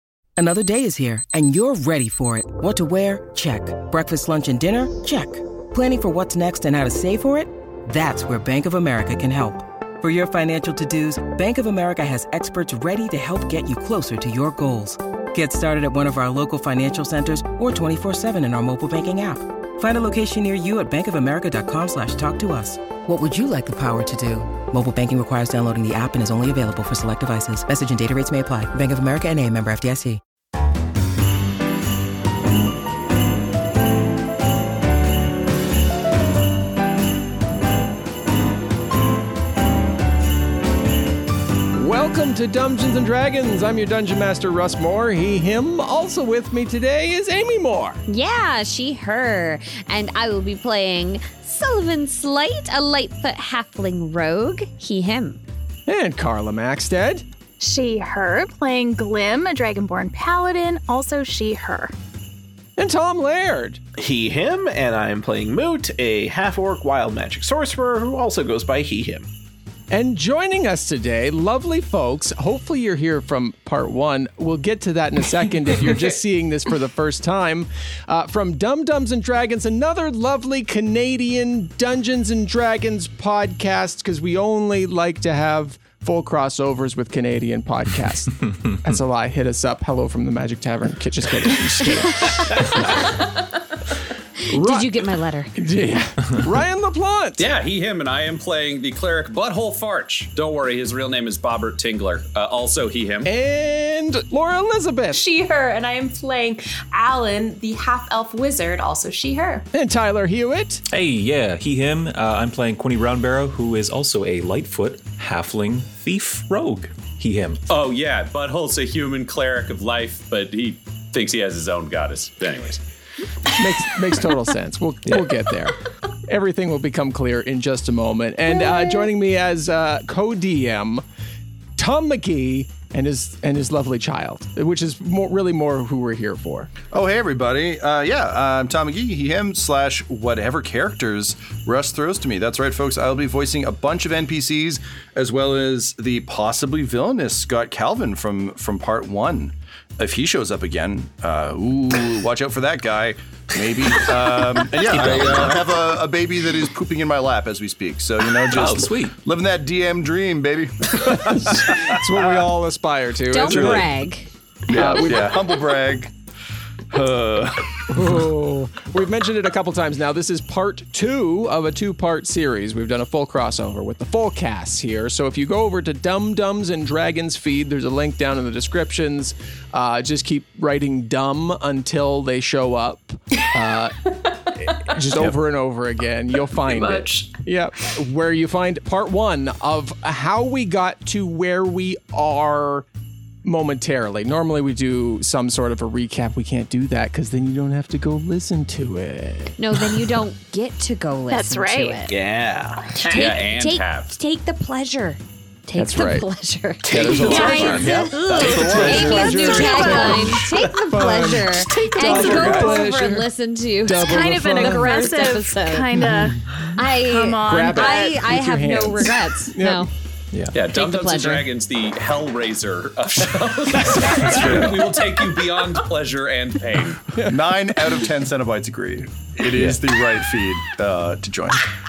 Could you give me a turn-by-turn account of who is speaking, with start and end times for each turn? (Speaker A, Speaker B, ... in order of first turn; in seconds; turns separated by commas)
Speaker A: 0.4-30.2, Speaker B: 41.7-48.0, Speaker C: 48.1-55.4, Speaker B: 55.9-57.2, Speaker D: 57.6-61.9, Speaker B: 62.8-63.8, Speaker E: 64.0-69.3, Speaker B: 69.9-93.1, Speaker B: 94.5-94.9, Speaker C: 94.5-95.5, Speaker B: 95.5-97.4, Speaker F: 97.4-103.3, Speaker B: 103.2-105.2, Speaker G: 105.1-109.7, Speaker B: 109.7-110.8, Speaker H: 110.9-117.6, Speaker F: 117.7-122.8, Speaker B: 123.5-131.0, Speaker B: 131.8-136.7, Speaker I: 136.9-162.5, Speaker H: 154.8-155.7, Speaker H: 158.5-159.1, Speaker B: 161.3-163.9, Speaker C: 163.3-165.3, Speaker I: 163.4-163.9, Speaker I: 164.7-166.1, Speaker B: 164.7-165.3, Speaker E: 166.9-167.4, Speaker B: 167.9-184.0, Speaker B: 184.6-192.9, Speaker G: 186.6-187.4, Speaker B: 193.4-199.5, Speaker C: 199.6-202.1, Speaker D: 201.3-201.9, Speaker E: 202.1-203.3, Speaker C: 202.9-215.9, Speaker F: 203.1-204.1, Speaker B: 205.7-206.3, Speaker E: 206.8-210.3, Speaker B: 206.8-213.3, Speaker I: 206.9-210.4, Speaker E: 212.0-212.7, Speaker B: 213.8-215.1, Speaker D: 214.0-216.4, Speaker B: 215.9-216.6, Speaker C: 216.7-219.9, Speaker D: 217.0-218.2, Speaker B: 217.4-219.9, Speaker F: 220.5-227.0, Speaker C: 220.7-221.4, Speaker I: 224.2-224.9, Speaker I: 227.2-231.6, Speaker H: 229.5-229.8